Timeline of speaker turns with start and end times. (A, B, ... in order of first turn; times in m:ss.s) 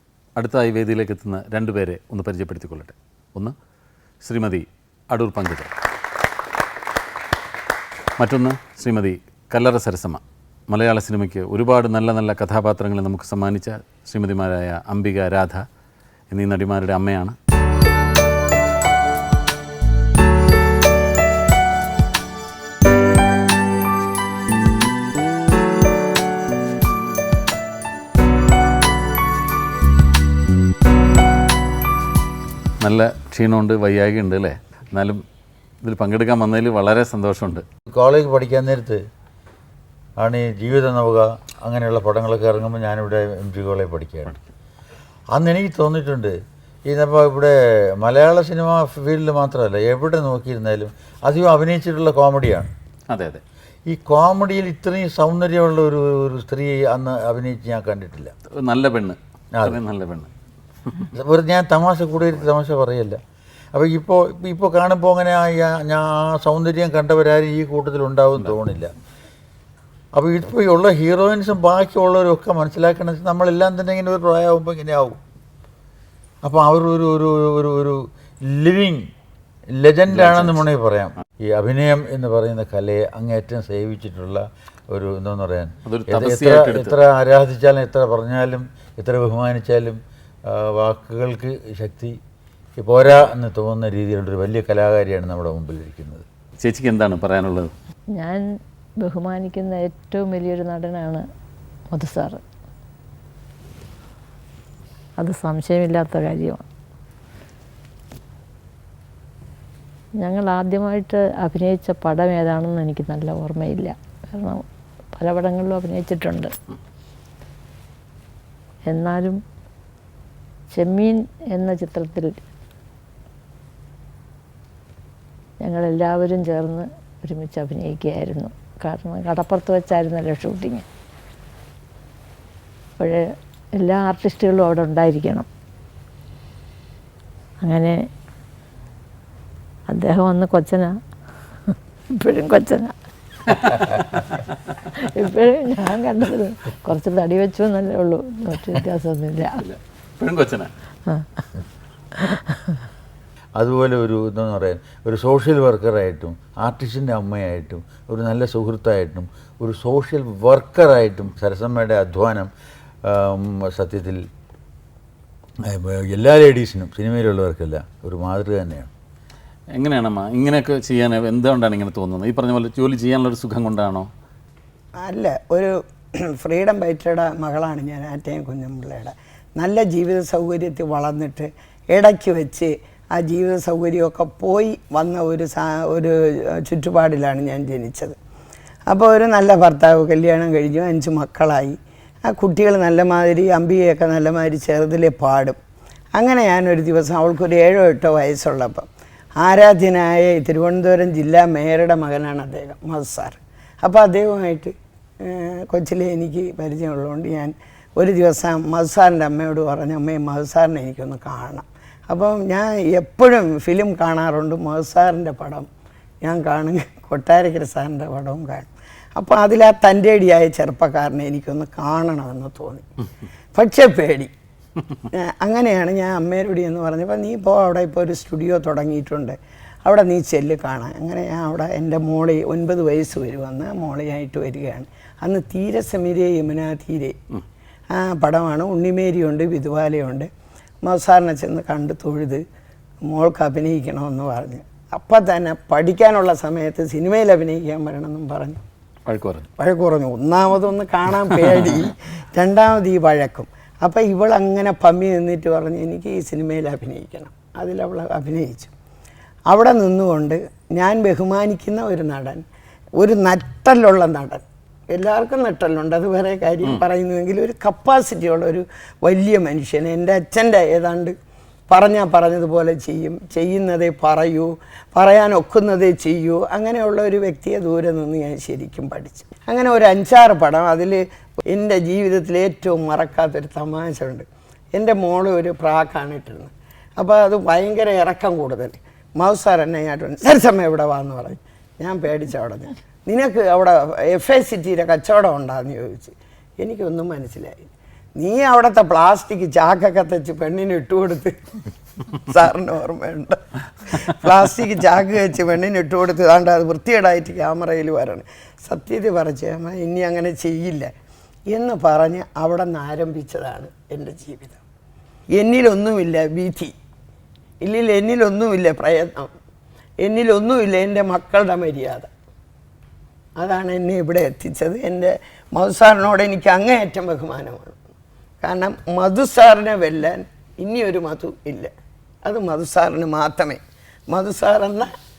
0:00.4-0:03.6 A
0:04.2-0:05.7 A
0:08.2-0:15.6 A
0:16.3-0:17.4 A
0:32.8-0:35.2 A
0:35.8-0:37.6 A
0:37.9-0:39.0 B
0:40.2-0:44.4 B
0:45.3-0:46.4 B
0:46.9-0:52.7 B
0:53.1-0:53.4 A
0:53.9-0:58.3 B
0:58.5-1:00.3 A
0:59.5-0:59.8 B
1:01.1-1:03.2 B
1:03.7-1:08.9 B
1:10.1-1:15.2 B
1:16.4-1:19.1 B
1:19.7-1:32.2 B
1:20.1-1:20.7 A
1:25.9-1:27.0 A
1:32.8-1:36.3 B
1:36.6-1:37.7 A
1:38.2-1:38.4 C
1:39.0-1:41.2 C
1:41.9-1:42.4 C
1:45.2-1:46.6 C
1:50.2-1:56.5 C
1:58.9-1:59.4 C
2:00.7-2:02.3 C
2:05.6-2:10.9 C
2:13.0-2:13.2 C
2:13.8-2:15.5 C
2:17.6-2:18.0 C
2:19.9-2:20.9 C
2:21.7-2:22.9 C
2:25.0-2:29.6 C
2:29.6-2:30.7 A
2:32.2-2:32.8 C
2:33.6-2:42.5 B
2:43.1-2:44.2 B
2:45.6-2:48.9 B
2:49.7-2:54.1 A
2:55.0-3:08.2 D
3:08.9-3:15.6 D
3:16.2-3:35.7 D
3:36.2-3:42.8 D
3:43.6-3:44.3 D
3:45.1-3:57.2 D
3:57.9-4:00.3 D
4:00.8-4:02.4 D
4:03.0-4:08.6 D
4:09.1-4:09.5 A
4:09.6-4:18.7 D
4:19.5-4:22.4 D
4:23.0-4:31.1 D
4:31.7-5:01.4 D
5:02.3-5:10.9 D
5:11.5-5:14.6 D
5:15.4-5:16.7 D
5:17.6-5:19.3 D
5:20.0-5:22.1 D
5:23.4-5:27.8 D
5:28.4-5:31.7 D
5:32.2-5:34.9 D